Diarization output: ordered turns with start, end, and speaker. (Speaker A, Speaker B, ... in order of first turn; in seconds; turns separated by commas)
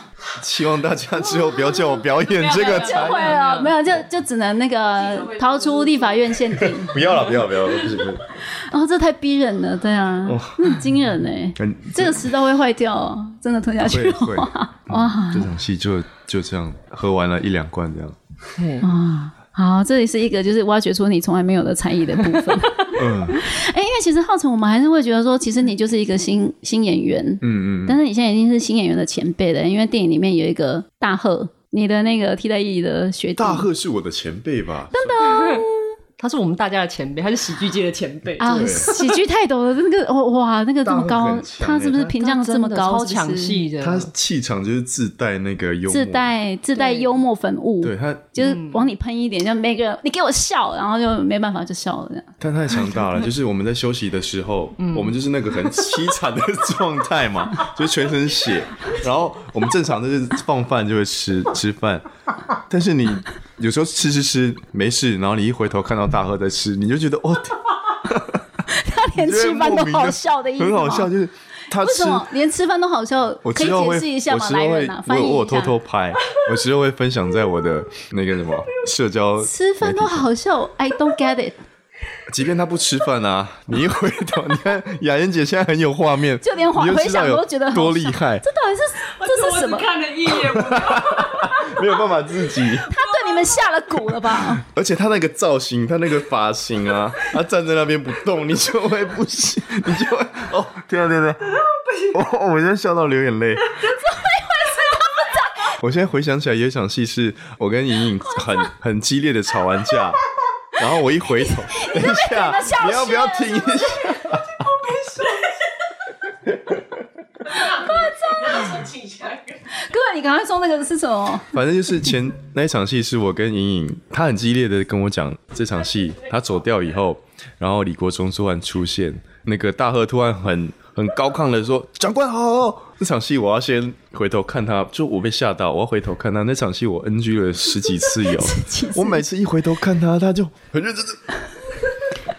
Speaker A: 0.3-3.4, Speaker B: 2.4-3.7, Speaker C: 2.5-7.0, Speaker A: 6.6-8.2, Speaker C: 8.4-15.5, Speaker A: 10.2-10.8, Speaker A: 11.6-12.3, Speaker A: 13.8-18.2, Speaker B: 18.5-18.9, Speaker C: 18.8-33.7, Speaker A: 22.9-23.4, Speaker A: 27.4-28.0, Speaker A: 33.4-35.5, Speaker C: 34.9-35.9, Speaker B: 35.2-35.6, Speaker B: 36.2-39.2, Speaker C: 38.4-43.6, Speaker A: 38.5-38.9, Speaker A: 40.8-42.1, Speaker B: 42.2-44.1, Speaker A: 43.8-46.3, Speaker C: 45.9-52.3, Speaker B: 46.7-47.1, Speaker A: 47.8-48.3, Speaker B: 48.4-48.9, Speaker A: 52.4-68.5, Speaker B: 54.8-55.1, Speaker C: 68.7-71.1, Speaker A: 69.1-72.3, Speaker C: 71.8-75.8, Speaker A: 73.4-80.3, Speaker C: 79.4-81.6, Speaker A: 82.3-88.4, Speaker C: 86.4-89.9, Speaker B: 89.0-93.6, Speaker A: 90.3-92.9, Speaker C: 92.8-94.6, Speaker A: 94.4-101.5, Speaker B: 101.4-102.2, Speaker A: 102.1-103.8, Speaker B: 103.7-104.0, Speaker C: 103.9-105.7, Speaker A: 105.7-110.2, Speaker A: 110.7-114.6, Speaker C: 111.5-114.2, Speaker C: 117.5-119.0, Speaker C: 119.7-121.6, Speaker A: 121.5-141.3, Speaker C: 138.1-139.2